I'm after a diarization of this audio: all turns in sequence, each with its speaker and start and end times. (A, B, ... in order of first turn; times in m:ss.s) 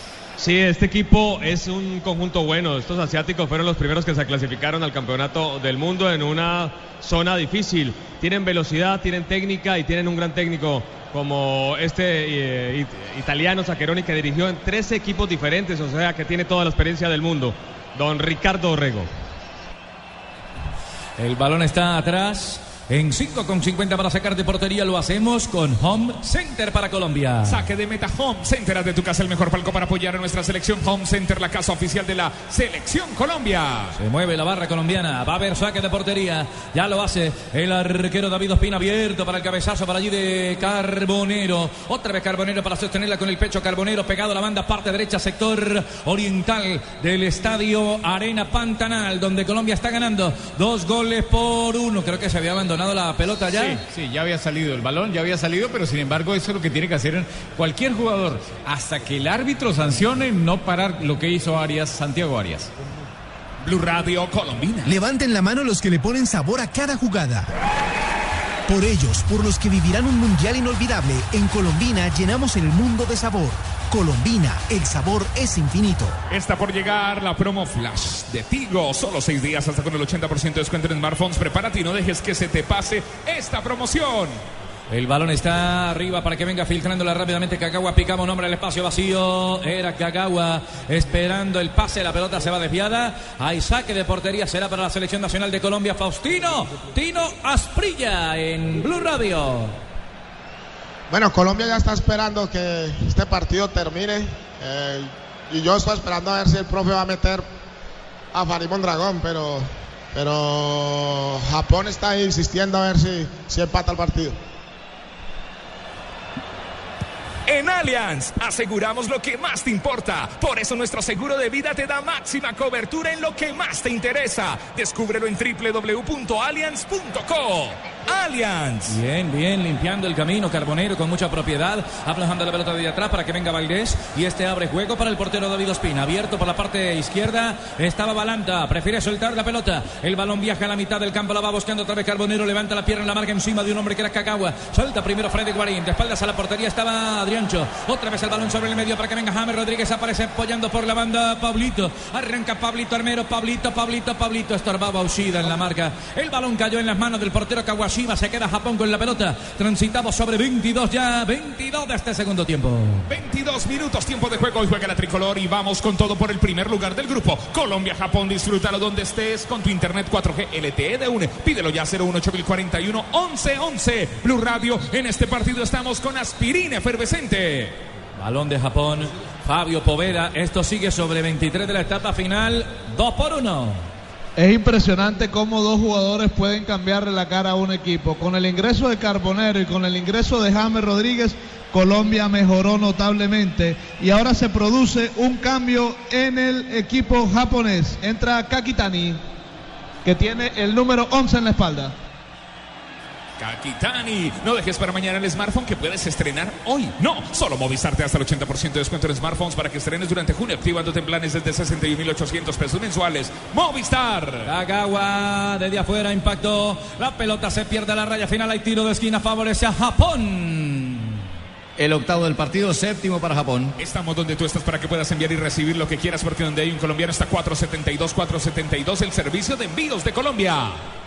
0:00.4-0:19.1 A
0:21.2-0:27.6 B
0:27.4-0:34.0 C
0:34.0-0:53.8 B
0:53.5-1:02.7 D
1:03.6-1:05.0 C
1:04.8-1:07.5 E
1:08.7-1:16.2 E
1:16.3-1:24.4 C
1:24.9-1:39.8 B
1:41.1-1:47.4 F
1:48.3-1:54.4 F
1:57.5-2:09.0 C
2:08.9-2:43.1 B
2:43.1-2:57.8 C
2:58.2-3:03.8 B
3:04.4-3:19.2 G
3:20.0-3:21.9 G
3:23.4-3:34.5 C
3:34.4-3:41.2 B
3:41.8-3:43.8 H
3:43.8-3:50.8 C